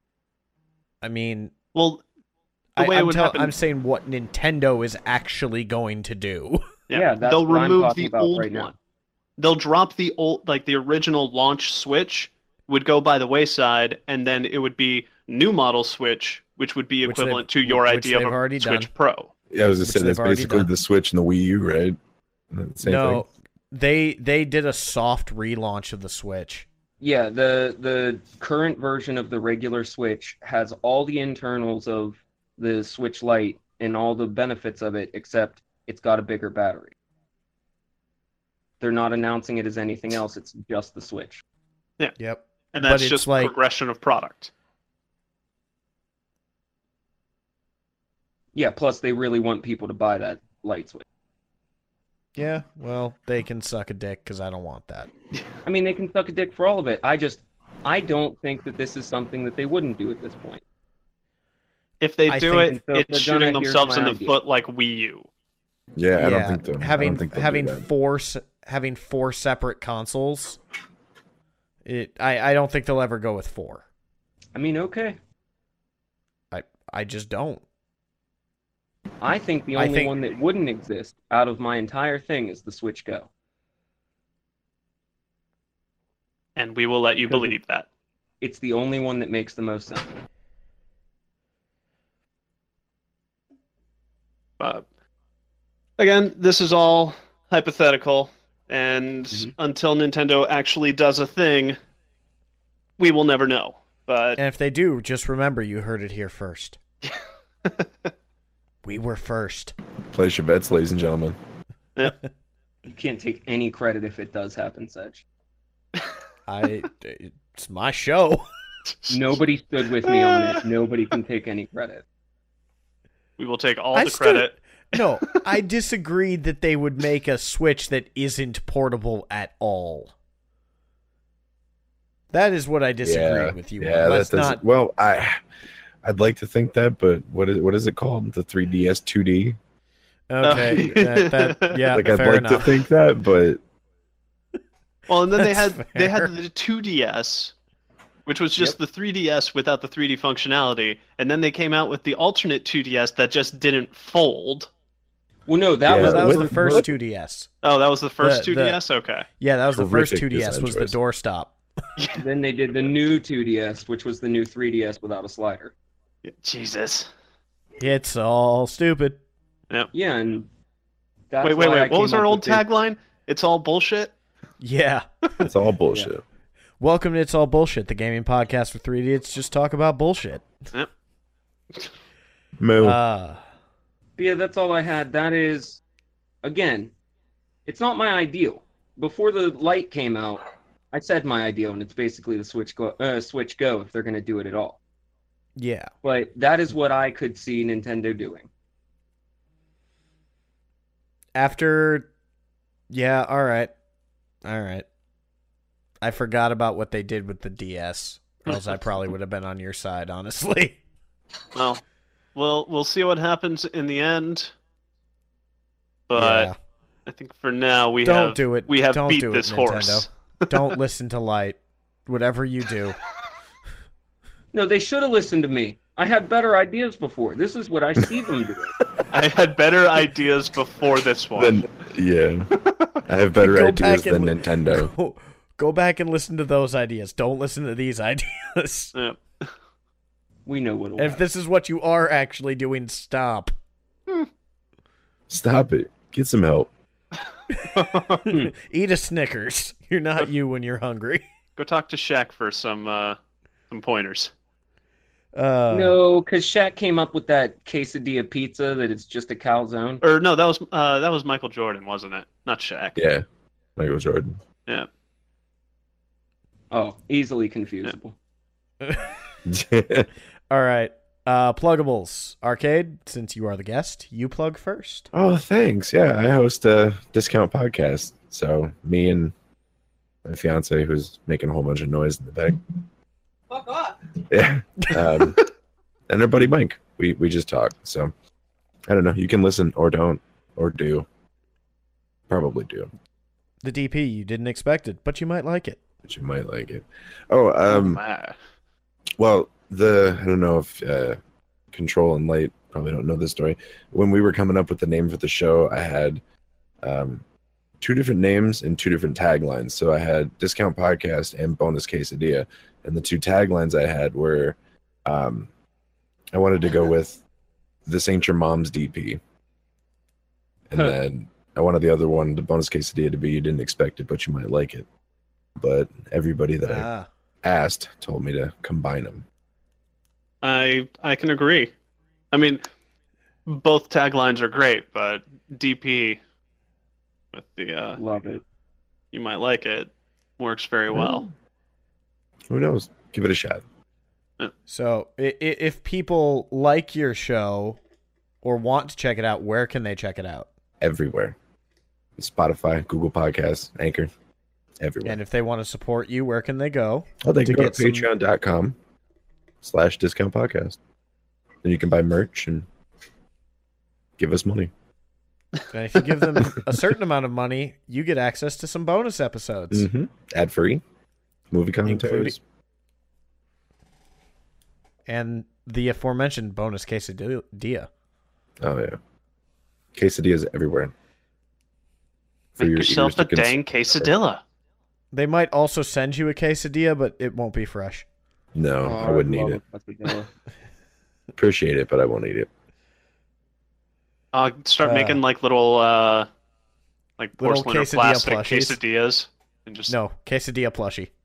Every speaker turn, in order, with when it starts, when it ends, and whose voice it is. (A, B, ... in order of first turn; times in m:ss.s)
0:01.0-0:01.5 A
0:01.8-0:02.0 B
0:02.8-0:06.7 A
0:02.8-0:03.5 B
0:06.9-0:08.7 B
0:06.9-0:08.7 C
0:09.4-0:19.3 B
0:17.0-0:18.9 A
0:19.5-0:22.0 D
0:19.8-0:20.7 A
0:22.5-0:23.2 D
0:22.8-0:26.7 A
0:27.0-0:36.9 C
0:38.8-0:41.4 C
0:42.2-0:43.5 A
0:42.7-0:44.5 B
0:48.6-0:51.0 C
0:52.4-0:55.1 A
0:55.6-1:00.6 C
1:02.0-1:05.3 B
1:02.3-1:02.8 A
1:02.5-1:04.4 C
1:06.0-1:07.9 D
1:06.2-1:10.6 A
1:11.8-1:13.8 A
1:14.6-1:15.2 C
1:16.5-1:17.6 A
1:19.2-1:23.3 C
1:19.8-1:20.1 A
1:26.6-1:27.9 B
1:28.4-1:30.3 C
1:34.6-1:34.8 B
1:36.0-1:41.8 B
1:43.0-1:44.4 B
1:44.4-1:46.8 A
1:47.0-1:47.9 B
1:48.8-1:49.8 A
1:50.1-1:51.4 D
1:52.9-1:55.2 C
1:56.5-1:58.5 A
1:59.0-1:59.3 B
1:59.1-2:02.0 C
2:00.0-2:00.6 B
2:03.4-2:05.4 B
2:03.9-2:10.1 A
2:12.3-2:14.6 A
2:13.0-2:15.4 D
2:16.0-2:19.6 D
2:20.3-2:22.9 A
2:20.4-2:21.9 B
2:21.9-2:23.6 D
2:25.1-2:27.5 B
2:25.4-2:26.3 A
2:28.3-2:34.7 B
2:35.5-2:36.9 C
2:35.9-2:36.8 D
2:35.9-2:37.5 A
2:37.6-2:39.3 B
2:38.2-2:38.8 A
2:39.4-2:41.6 A
2:39.8-2:41.0 D
2:42.2-2:45.7 C
2:46.2-2:47.1 B
2:47.8-2:49.2 A
2:49.9-2:50.5 C
2:51.3-2:52.6 C
2:51.4-2:54.1 B
2:54.6-2:55.5 A
2:55.4-2:56.2 D
2:56.8-3:00.5 A
3:02.6-3:03.0 D
3:02.8-3:03.4 A
3:04.2-3:05.8 C
3:06.4-3:06.9 C
3:07.7-3:14.8 C
3:15.6-3:15.9 A
3:16.0-3:18.5 C
3:21.4-3:22.1 A
3:22.9-3:23.7 A
3:24.4-3:24.9 A
3:26.0-3:30.8 A
3:31.6-3:31.8 B
3:32.4-3:34.5 B
3:36.1-3:36.5 B
3:36.2-3:36.6 A
3:37.1-3:40.6 B
3:38.0-3:43.0 A
3:44.5-3:48.7 C
3:49.1-3:51.6 B
3:51.4-3:52.5 D
3:53.0-3:54.9 D
3:53.4-3:58.9 A
3:59.0-3:59.5 B
4:00.5-4:01.2 C
4:01.0-4:03.5 A
4:05.3-4:06.7 D
4:07.5-4:11.2 A
4:07.8-4:08.2 B
4:11.6-4:13.2 B
4:13.7-4:14.3 B
4:15.4-4:16.0 A
4:15.7-4:20.0 C
4:20.0-4:23.0 B
4:23.0-4:23.2 D
4:23.8-4:24.4 D
4:26.7-4:28.2 C
4:28.8-4:29.2 A
4:29.5-4:30.1 D
4:30.5-4:35.1 A
4:35.1-4:39.3 D
4:40.2-4:42.8 D
4:43.5-4:44.0 C
4:44.3-4:45.4 D
4:45.0-4:45.2 A
4:46.1-4:48.1 D
4:48.9-4:51.1 D
4:52.3-4:52.9 D
4:53.6-4:55.8 A
4:56.1-4:58.0 D
4:57.7-4:58.4 B
4:59.2-5:01.2 D
5:01.7-5:06.2 D
5:06.8-5:07.2 D
5:07.8-5:15.5 D
5:16.3-5:17.2 D
5:17.9-5:19.2 D
5:20.7-5:24.9 D
5:25.6-5:26.9 D
5:26.6-5:27.1 A
5:27.4-5:29.2 D
5:30.4-5:31.7 B
5:32.3-5:32.6 B
5:33.5-5:36.2 B
5:37.3-5:38.0 B
5:38.0-5:38.4 C
5:39.1-5:41.3 B
5:40.9-5:41.3 D
5:42.5-5:43.6 D
5:44.7-5:47.8 A
5:48.4-5:50.5 A
5:50.8-5:51.4 D
5:52.2-5:54.1 D
5:54.8-5:55.2 D
5:55.0-5:58.1 A
5:57.2-5:58.8 D
5:59.6-6:00.8 D
6:01.6-6:02.7 D
6:04.2-6:04.7 D
6:05.7-6:09.9 A
6:09.7-6:10.8 D
6:11.5-6:12.4 D
6:11.9-6:12.4 A
6:15.1-6:17.9 A
6:18.6-6:19.0 D
6:20.0-6:20.9 D
6:22.6-6:24.1 D
6:22.6-6:24.4 B
6:25.1-6:28.1 A
6:28.6-6:29.6 D
6:28.8-6:30.3 C
6:31.4-6:32.5 D
6:34.3-6:36.3 B
6:34.8-6:35.2 A
6:37.2-6:40.0 B
6:37.4-6:38.8 A
6:39.9-6:41.1 A